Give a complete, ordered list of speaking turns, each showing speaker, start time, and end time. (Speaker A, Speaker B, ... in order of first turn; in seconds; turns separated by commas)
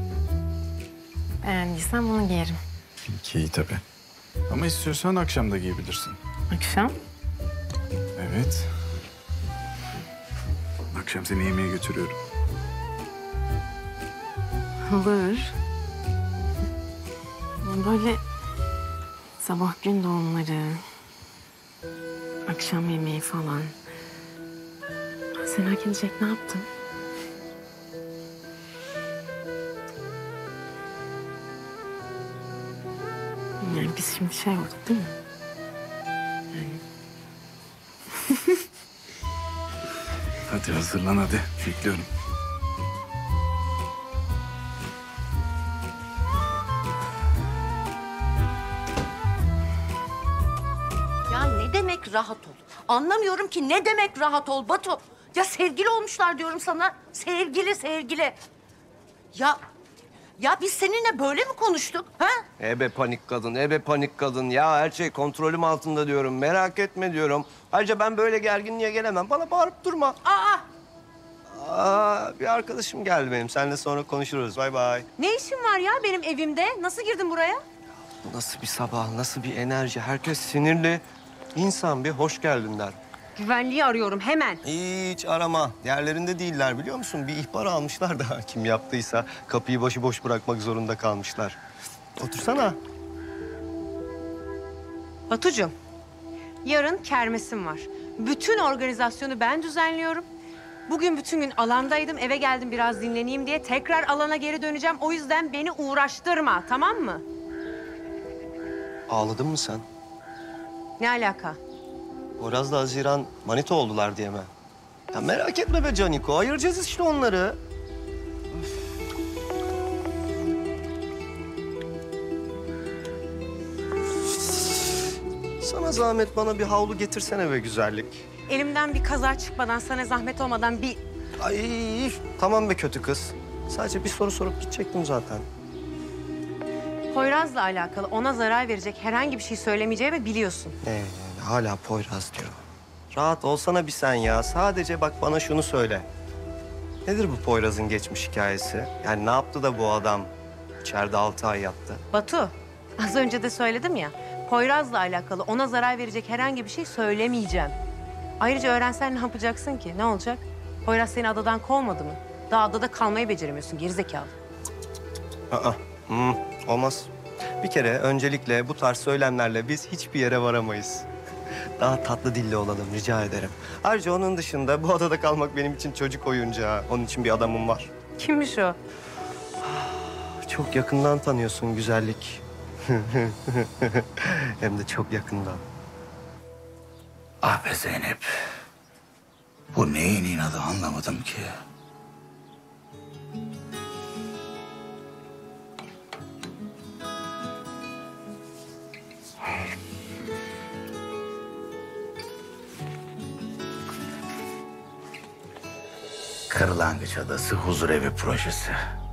Speaker A: 1.4-2.6, Speaker B: 3.1-3.8, Speaker B: 4.5-6.2, Speaker A: 6.5-6.9, Speaker B: 8.2-8.7, Speaker B: 10.9-12.2, Speaker A: 14.8-15.5, Speaker A: 17.6-18.2, Speaker A: 19.4-20.8, Speaker A: 22.5-23.7, Speaker A: 25.4-26.6, Speaker A: 33.6-35.1, Speaker B: 40.5-42.1, Speaker C: 51.3-58.3, Speaker C: 59.3-59.6, Speaker C: 60.4-62.4, Speaker D: 62.6-70.2, Speaker D: 71.5-75.1, Speaker E: 75.2-77.6, Speaker D: 78.2-83.0, Speaker E: 83.3-84.6, Speaker D: 84.6-91.6, Speaker D: 92.2-92.8, Speaker E: 95.3-95.7, Speaker E: 96.6-100.3, Speaker E: 100.9-107.2, Speaker D: 109.1-109.8, Speaker E: 111.0-111.6, Speaker D: 112.4-114.5, Speaker D: 115.1-117.6, Speaker D: 125.6-128.2, Speaker E: 128.5-131.0, Speaker D: 131.4-135.5, Speaker E: 137.1-140.8, Speaker D: 140.8-142.6, Speaker D: 143.1-146.1, Speaker D: 147.1-150.3, Speaker D: 150.8-152.0, Speaker E: 152.1-157.8, Speaker E: 158.4-164.3, Speaker D: 165.5-167.1, Speaker D: 167.6-171.1, Speaker D: 171.8-177.9, Speaker E: 178.2-178.7, Speaker D: 179.6-185.6, Speaker F: 187.4-188.2, Speaker F: 189.7-191.5, Speaker F: 206.5-208.8